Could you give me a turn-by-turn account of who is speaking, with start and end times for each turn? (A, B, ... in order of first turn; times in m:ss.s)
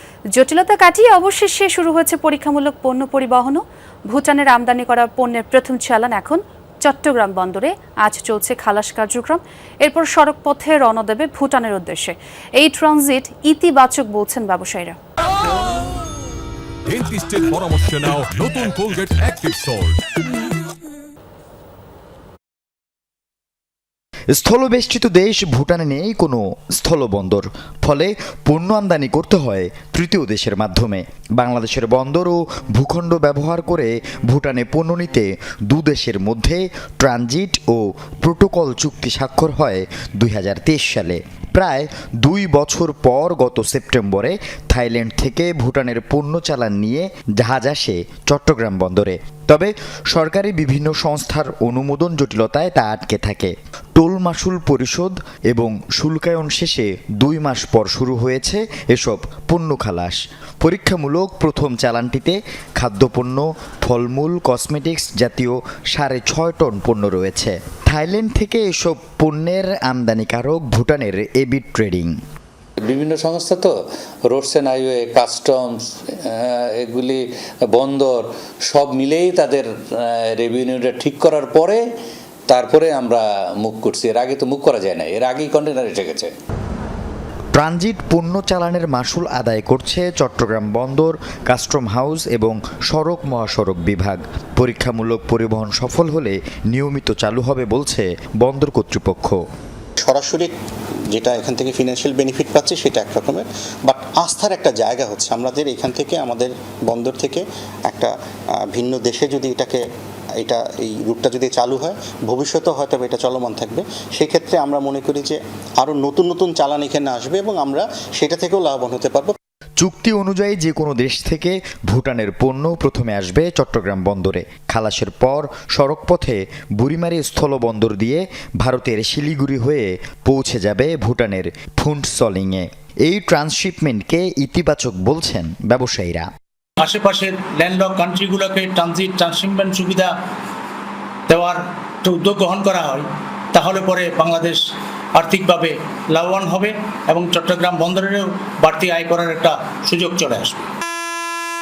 0:00.3-0:15.0 A
0:16.9-0:20.0 B
0:24.3-1:12.2 C
1:12.8-1:13.7 D
1:14.3-1:21.8 D
1:22.5-1:26.3 D
1:27.5-1:39.4 C
1:40.0-1:40.5 E
1:41.1-1:48.1 E
1:48.7-1:49.8 E
1:50.4-1:59.4 E
1:59.8-2:16.3 C
2:16.8-2:20.1 F
2:21.3-2:30.6 F